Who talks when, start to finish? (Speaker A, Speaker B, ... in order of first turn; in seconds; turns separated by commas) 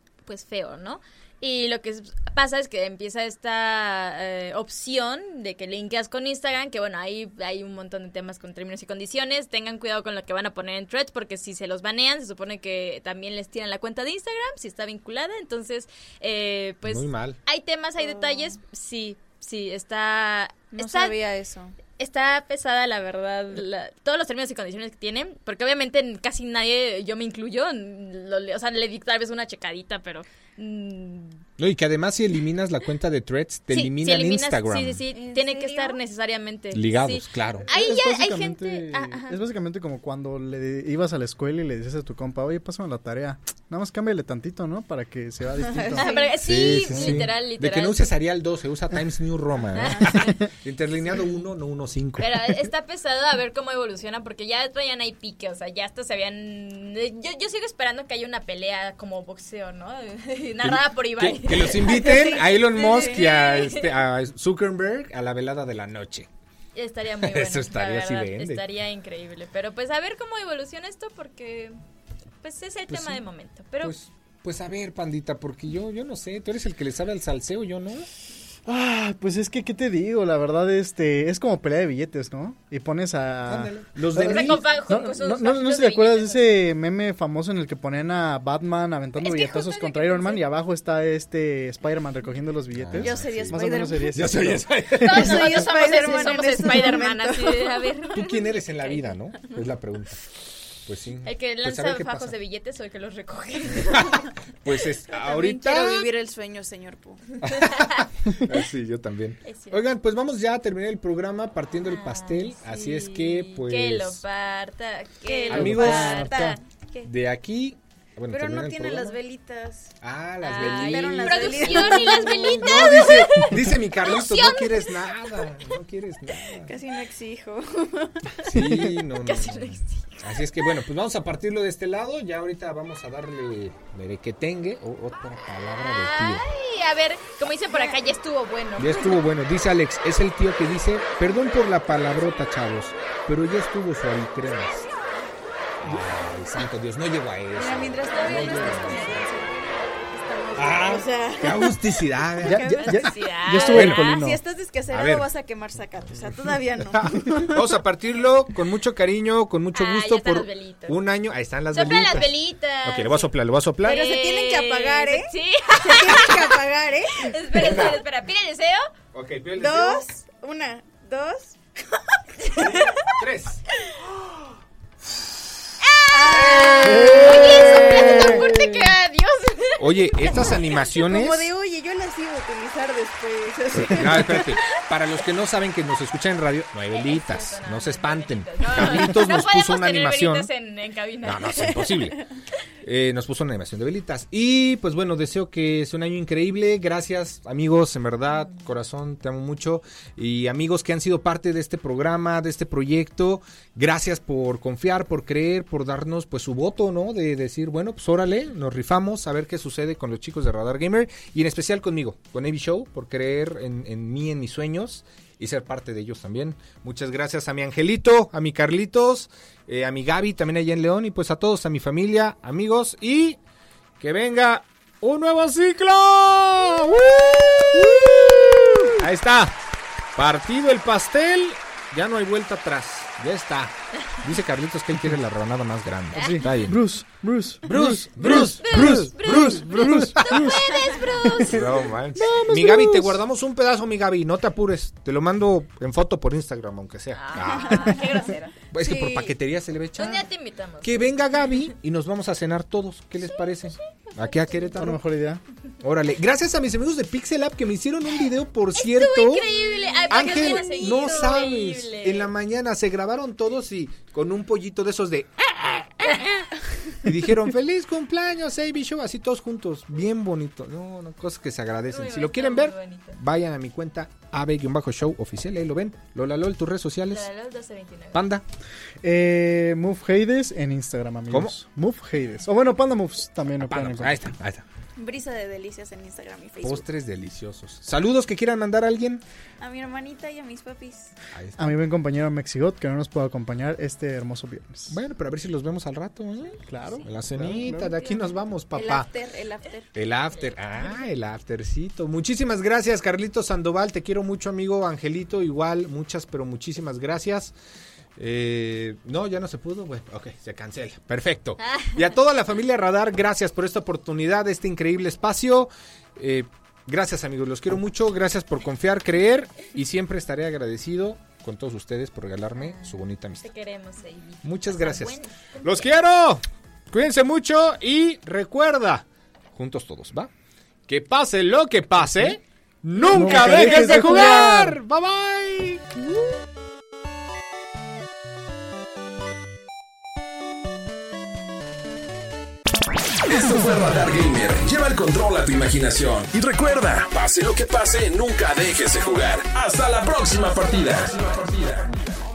Speaker A: 0.2-21.1, Speaker B: 16.8-17.4, Speaker C: 18.1-18.4, Speaker C: 20.7-21.7, Speaker A: 22.0-31.4, Speaker B: 31.6-35.0, Speaker A: 33.7-39.4, Speaker C: 35.1-36.0, Speaker B: 36.7-39.2, Speaker D: 39.2-46.1, Speaker C: 45.7-46.4, Speaker A: 45.9-48.0, Speaker B: 46.4-52.4, Speaker D: 46.9-47.2, Speaker A: 49.8-50.5, Speaker A: 52.2-63.9, Speaker B: 60.6-66.3, Speaker C: 62.0-63.2, Speaker A: 66.7-71.8, Speaker B: 67.2-68.6, Speaker A: 72.4-73.9, Speaker B: 72.9-73.2, Speaker B: 73.8-78.1, Speaker D: 78.7-94.9, Speaker B: 83.5-84.6, Speaker A: 84.2-86.5, Speaker A: 89.2-90.4, Speaker B: 92.7-95.7, Speaker C: 93.0-94.5, Speaker C: 95.0-98.0, Speaker A: 95.0-98.9, Speaker B: 98.1-100.2, Speaker B: 100.8-102.3, Speaker A: 101.2-104.3, Speaker B: 103.7-106.1, Speaker C: 105.2-107.2, Speaker B: 107.4-114.2, Speaker A: 107.4-108.0, Speaker A: 109.5-109.8, Speaker A: 111.8-116.6, Speaker C: 115.2-117.1, Speaker B: 115.5-119.2, Speaker D: 115.7-115.9, Speaker C: 118.3-119.9, Speaker B: 120.0-126.8, Speaker A: 120.4-125.5, Speaker C: 120.6-123.1, Speaker C: 126.6-128.6, Speaker B: 128.4-136.4, Speaker A: 129.1-130.4, Speaker A: 135.7-139.2, Speaker C: 137.7-138.1, Speaker B: 138.8-144.8, Speaker B: 145.8-149.2, Speaker C: 147.5-151.8, Speaker A: 148.1-148.6, Speaker B: 150.6-153.0, Speaker D: 152.4-154.4, Speaker C: 152.5-157.7, Speaker A: 152.7-154.2, Speaker B: 153.6-154.1, Speaker B: 154.9-155.3, Speaker B: 156.8-162.3, Speaker A: 159.7-161.0, Speaker A: 161.7-163.3, Speaker B: 162.8-164.0, Speaker A: 163.8-166.6, Speaker C: 163.8-167.9, Speaker A: 167.1-168.9, Speaker B: 167.5-168.0, Speaker B: 169.1-170.1, Speaker C: 169.6-171.6, Speaker A: 172.4-173.0, Speaker B: 173.2-173.6, Speaker A: 175.8-180.6, Speaker C: 176.1-178.5, Speaker B: 176.5-178.7, Speaker B: 179.8-181.5, Speaker C: 180.5-184.6, Speaker B: 183.7-190.5, Speaker A: 186.9-192.0, Speaker B: 191.2-192.2, Speaker B: 192.8-223.4, Speaker B: 224.0-229.6, Speaker D: 228.3-228.9, Speaker B: 230.1-236.8, Speaker D: 236.3-240.7, Speaker B: 237.6-240.5, Speaker A: 238.6-241.8, Speaker D: 241.2-243.2, Speaker B: 241.4-248.2, Speaker A: 247.1-248.6, Speaker B: 248.7-250.2, Speaker C: 248.8-249.2, Speaker A: 250.0-251.2, Speaker B: 250.8-255.0, Speaker A: 254.1-254.9, Speaker D: 254.7-255.4, Speaker B: 255.8-259.5, Speaker A: 258.8-262.3, Speaker C: 259.9-261.3, Speaker B: 260.1-266.3, Speaker B: 267.0-277.3, Speaker A: 271.9-273.2, Speaker A: 277.1-278.2, Speaker B: 278.1-278.4, Speaker D: 279.0-284.2, Speaker B: 283.6-284.6, Speaker C: 284.9-286.9, Speaker B: 286.6-289.2, Speaker C: 289.6-291.1, Speaker B: 291.3-291.8, Speaker D: 291.6-294.9, Speaker B: 294.9-299.1, Speaker D: 296.6-297.9, Speaker C: 297.8-299.9, Speaker B: 299.9-307.5, Speaker B: 308.2-323.5, Speaker A: 311.6-311.9, Speaker A: 322.6-325.9, Speaker B: 324.4-330.3, Speaker B: 330.9-335.9, Speaker D: 333.1-334.8, Speaker E: 343.2-351.9